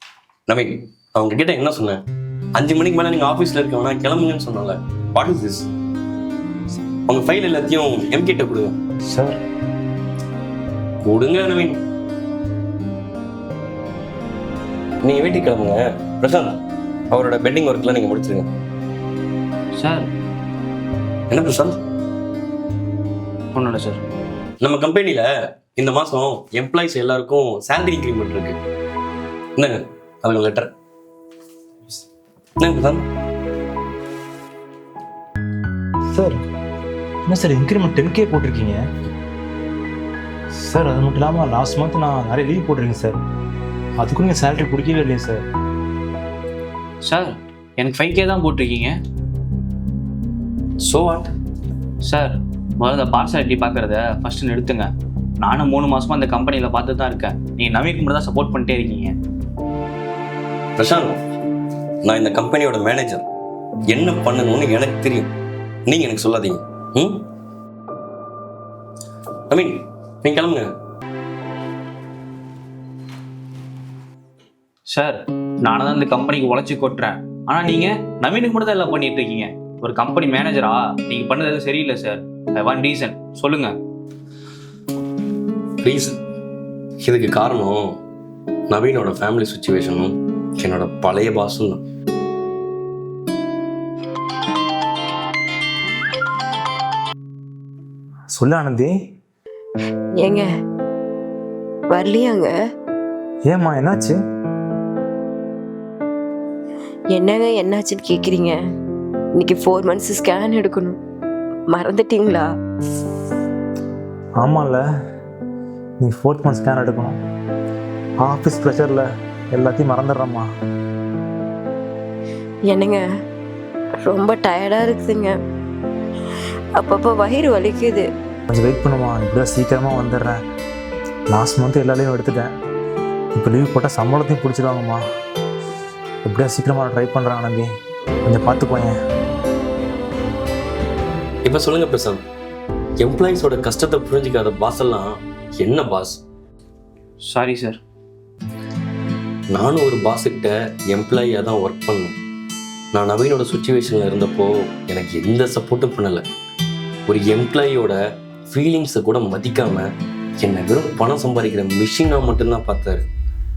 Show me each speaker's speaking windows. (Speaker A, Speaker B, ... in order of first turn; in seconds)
Speaker A: 0.5-2.0, 2.5-5.7, 7.1-8.8, 11.0-11.8, 15.0-16.6, 17.1-18.5, 21.3-21.8, 24.6-28.6, 29.6-30.7, 32.6-33.1, 50.9-51.3, 60.8-61.2, 62.0-63.2, 63.9-65.3, 65.9-67.3, 69.5-70.7, 85.8-86.2, 87.0-88.0, 88.7-91.8, 141.4-142.2, 143.0-146.2, 149.5-152.2, 152.9-156.2, 157.1-158.0, 158.5-159.9, 160.4-163.0
Speaker B: 9.1-9.4, 36.1-36.4, 37.3-38.9, 40.5-43.2, 44.0-45.4, 98.3-98.9, 103.5-104.2, 114.4-114.8, 116.0-117.2, 118.2-120.5, 128.5-130.4, 131.3-132.5, 133.3-135.0, 136.2-137.7, 138.2-138.9
Speaker C: 19.8-20.1, 23.5-24.0, 47.0-49.0, 52.0-54.9, 55.4-59.1, 74.9-83.7, 147.3-147.8
Speaker D: 100.2-100.5, 101.9-102.5, 107.1-108.6, 109.4-111.0, 111.7-112.5, 122.7-123.0, 124.0-125.4, 126.8-128.1